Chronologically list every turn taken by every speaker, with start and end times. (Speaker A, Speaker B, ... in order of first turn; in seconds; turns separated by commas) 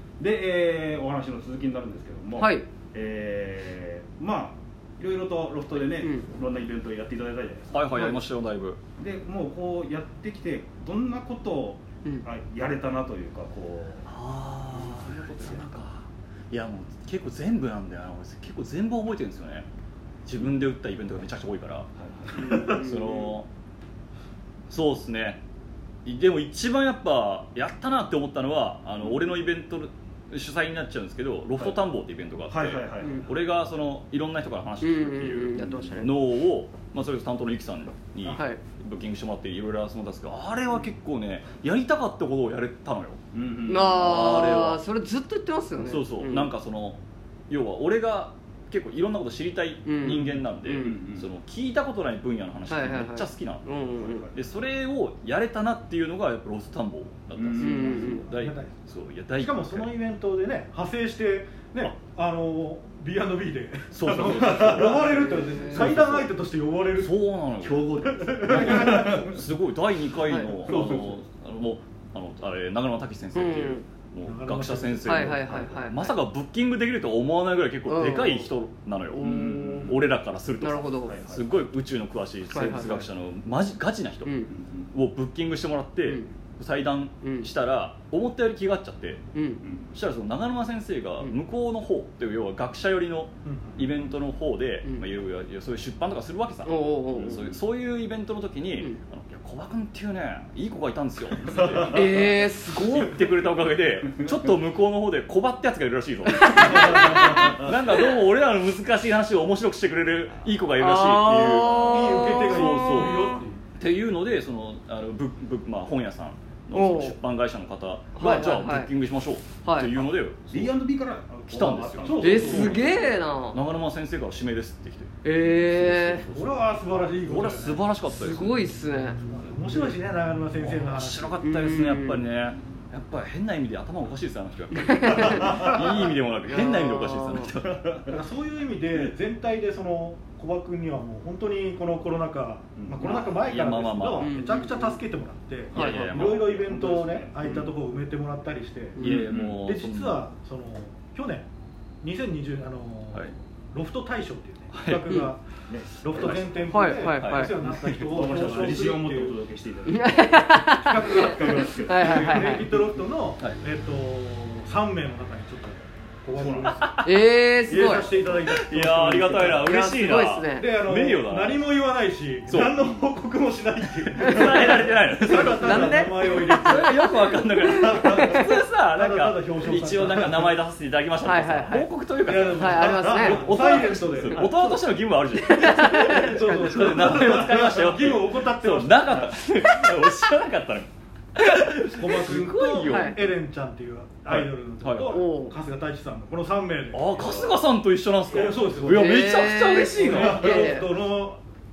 Speaker A: 0.2-7.8, Speaker B: 2.4-2.7, Speaker C: 7.7-8.8, Speaker A: 8.9-14.1, Speaker C: 14.1-19.6, Speaker B: 14.9-15.7, Speaker C: 20.2-21.9, Speaker A: 22.0-22.8, Speaker B: 22.4-23.4, Speaker C: 22.4-23.5, Speaker C: 24.7-25.4, Speaker C: 26.0-43.2, Speaker A: 32.5-33.3, Speaker B: 34.8-36.1, Speaker A: 35.6-35.9, Speaker B: 38.3-38.6, Speaker A: 43.3-44.2, Speaker B: 43.6-46.5, Speaker C: 44.0-44.8, Speaker C: 45.8-53.6, Speaker B: 49.9-51.0, Speaker A: 50.8-51.3, Speaker B: 52.7-54.3, Speaker A: 54.0-54.4, Speaker C: 54.3-59.9, Speaker A: 57.3-58.3, Speaker B: 57.6-58.2, Speaker D: 57.7-58.8, Speaker D: 59.3-67.1, Speaker C: 63.9-66.3, Speaker B: 65.2-65.9, Speaker C: 66.9-89.2, Speaker A: 67.6-69.4, Speaker D: 68.0-69.4, Speaker B: 70.2-70.6, Speaker A: 70.6-71.1, Speaker D: 70.7-71.2, Speaker B: 73.3-73.8, Speaker D: 74.2-75.6, Speaker B: 75.0-76.1, Speaker B: 77.9-78.5, Speaker B: 79.1-80.0, Speaker A: 79.2-80.0, Speaker B: 80.6-81.2, Speaker A: 81.0-81.6, Speaker B: 82.5-83.1, Speaker B: 84.2-84.5, Speaker A: 84.5-84.9, Speaker B: 87.2-87.5, Speaker B: 89.3-89.6, Speaker A: 89.6-89.9, Speaker C: 89.9-120.8, Speaker D: 93.4-93.8, Speaker B: 96.6-97.4, Speaker A: 97.1-97.6, Speaker A: 101.4-102.1, Speaker B: 101.9-103.2, Speaker A: 106.8-107.7, Speaker B: 110.8-113.3, Speaker D: 111.9-113.6, Speaker B: 116.7-117.2, Speaker B: 118.1-118.9, Speaker B: 119.6-120.0, Speaker A: 120.5-123.1, Speaker C: 121.5-122.9, Speaker D: 122.0-122.8, Speaker B: 122.2-123.6, Speaker C: 123.5-128.7, Speaker B: 125.2-126.3, Speaker D: 126.3-127.8, Speaker B: 128.1-129.2, Speaker D: 129.2-131.4, Speaker C: 130.6-137.9, Speaker B: 131.4-132.2, Speaker B: 134.8-135.8, Speaker A: 135.2-135.8, Speaker B: 136.5-137.5, Speaker A: 137.7-138.1, Speaker D: 138.1-149.0, Speaker A: 142.7-143.2, Speaker C: 143.2-144.4, Speaker B: 144.2-145.0, Speaker C: 145.7-146.6, Speaker B: 145.7-146.2, Speaker A: 145.9-147.7, Speaker B: 148.9-149.3, Speaker C: 149.0-150.3, Speaker A: 149.0-149.6, Speaker D: 149.5-151.5, Speaker D: 152.0-155.4, Speaker C: 154.7-155.2, Speaker A: 155.7-156.9, Speaker D: 156.0-159.4, Speaker B: 156.7-157.6, Speaker C: 157.0-158.4, Speaker A: 157.6-162.8, Speaker B: 159.9-162.7, Speaker D: 160.4-167.0, Speaker A: 166.4-166.8, Speaker C: 166.6-167.1, Speaker B: 167.0-168.1, Speaker D: 167.7-169.7, Speaker C: 168.4-171.6, Speaker B: 169.6-170.8, Speaker D: 170.5-177.2, Speaker C: 172.5-172.8, Speaker A: 172.8-173.1, Speaker C: 174.0-193.3, Speaker B: 175.3-176.6, Speaker B: 177.3-178.4, Speaker A: 177.8-178.3, Speaker D: 178.1-180.6, Speaker B: 181.2-181.9, Speaker D: 182.2-184.8, Speaker B: 182.5-183.7, Speaker B: 185.4-187.1, Speaker D: 186.3-189.3, Speaker D: 191.9-197.3, Speaker B: 192.6-193.2, Speaker C: 194.2-195.2, Speaker B: 195.1-195.6, Speaker C: 196.9-200.7, Speaker A: 197.2-197.6, Speaker D: 198.3-199.2, Speaker B: 198.8-200.9, Speaker D: 199.9-201.4